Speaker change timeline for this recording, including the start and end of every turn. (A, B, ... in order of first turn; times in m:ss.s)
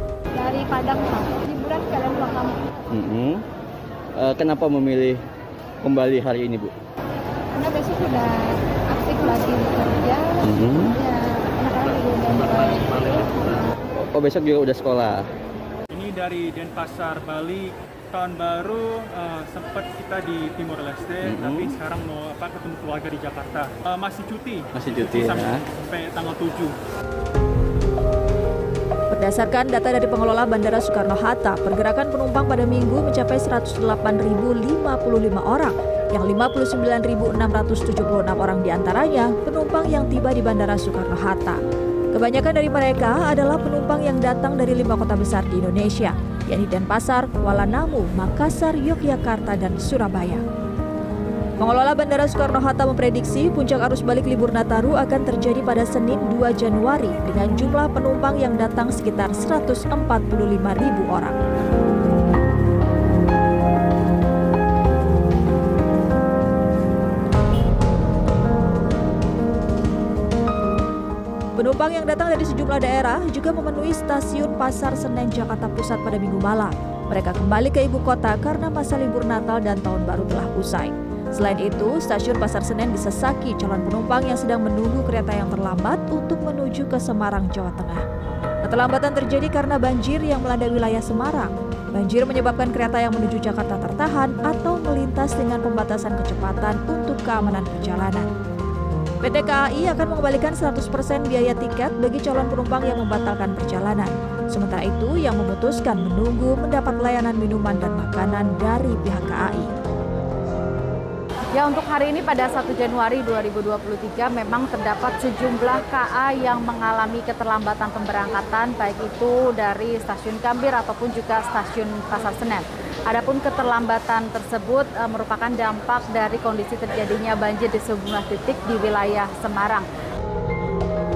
0:00.4-0:02.6 A
0:02.9-0:03.4 B
0:04.2-0:05.2 B
0:05.8-0:06.7 B
0:07.6-0:13.7 A
0:10.4-0:11.0 B
0:14.0-0:15.2 B
0:15.9-0:26.7 C
0:21.2-0:21.7 B
0:24.7-0:25.6 B
0:29.1-0:41.6 D
0:42.1-0:50.4 D
0:51.6-1:01.3 D
1:11.6-1:28.0 D
1:28.6-1:38.3 D
1:39.2-1:49.7 D
1:51.5-2:09.9 E